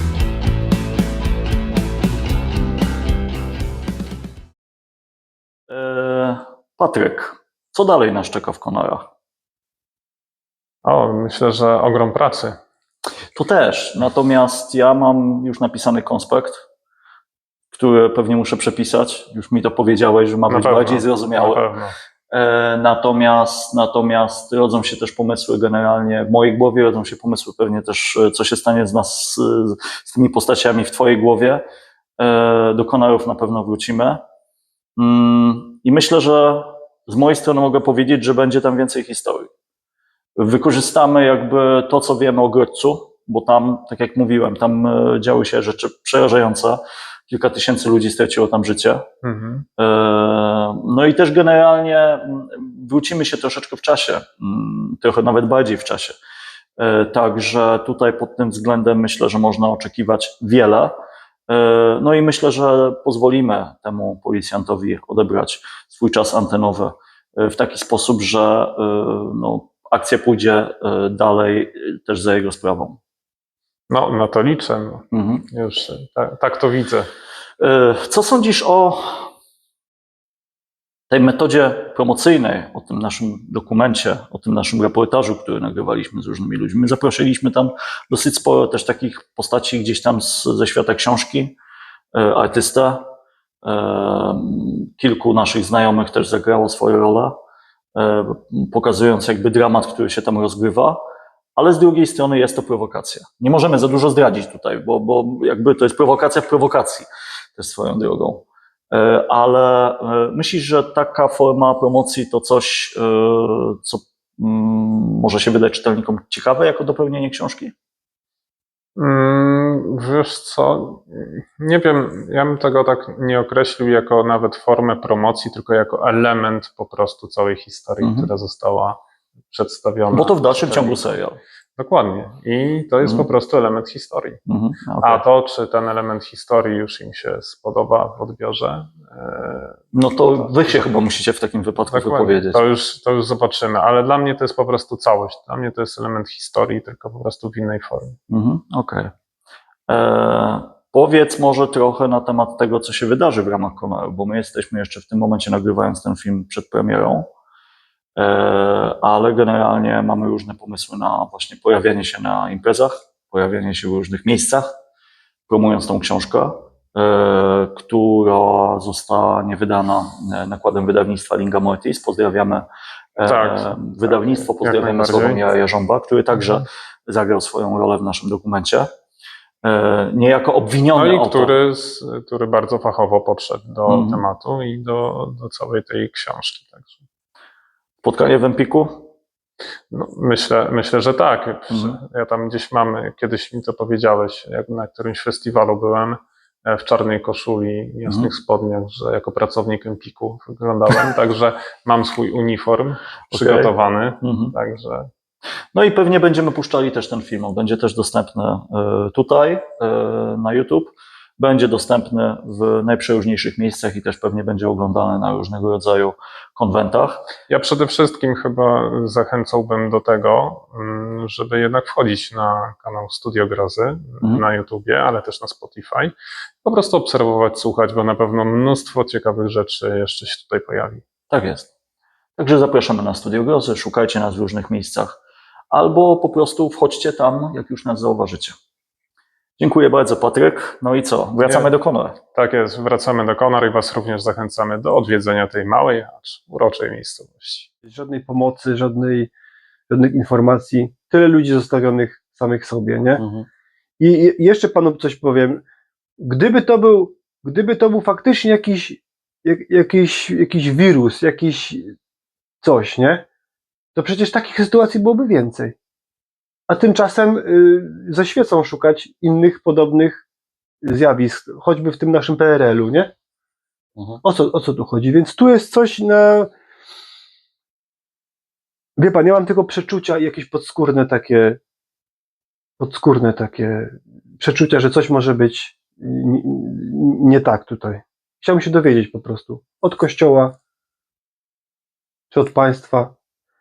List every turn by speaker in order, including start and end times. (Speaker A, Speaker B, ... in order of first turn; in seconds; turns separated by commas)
Speaker A: 5.7-9.1, Speaker B: 10.8-12.6, Speaker A: 13.3-16.6, Speaker A: 17.7-21.6, Speaker B: 20.5-21.9, Speaker A: 22.3-31.6, Speaker A: 32.2-34.2, Speaker A: 35.0-39.5, Speaker A: 40.4-49.1, Speaker B: 49.2-49.7, Speaker A: 49.8-56.2, Speaker A: 56.8-61.0, Speaker A: 61.5-73.0, Speaker B: 73.9-77.1, Speaker A: 75.1-75.5, Speaker A: 77.6-79.3, Speaker A: 81.1-91.6, Speaker A: 92.1-93.1, Speaker A: 93.6-97.4, Speaker A: 98.0-101.0, Speaker A: 101.6-117.7, Speaker B: 119.0-131.0, Speaker A: 128.0-128.3, Speaker A: 130.1-131.4, Speaker B: 131.8-134.4, Speaker A: 134.5-135.2, Speaker B: 135.0-139.8, Speaker A: 139.9-142.6, Speaker B: 140.4-140.9, Speaker B: 141.9-148.2, Speaker A: 148.3-149.1, Speaker A: 149.9-157.3, Speaker A: 158.2-164.7, Speaker A: 165.5-178.9, Speaker B: 173.2-175.4, Speaker A: 179.6-181.6, Speaker B: 181.0-187.0, Speaker A: 183.9-184.2, Speaker A: 188.0-189.1, Speaker B: 189.9-205.1, Speaker A: 191.7-192.0, Speaker A: 203.3-204.6, Speaker A: 205.7-217.3, Speaker B: 217.5-231.0, Speaker A: 231.3-231.7, Speaker A: 232.4-235.2, Speaker A: 235.7-238.6, Speaker A: 239.6-242.2, Speaker B: 241.4-241.7, Speaker B: 242.3-247.7, Speaker C: 247.8-249.3, Speaker C: 249.9-253.3, Speaker A: 253.2-253.4, Speaker C: 254.0-255.6, Speaker C: 256.2-261.9, Speaker C: 262.6-263.3, Speaker C: 263.9-265.8, Speaker C: 266.7-270.2, Speaker C: 270.8-273.1, Speaker C: 274.2-276.5, Speaker C: 279.0-281.6, Speaker C: 282.8-290.6, Speaker C: 292.3-293.1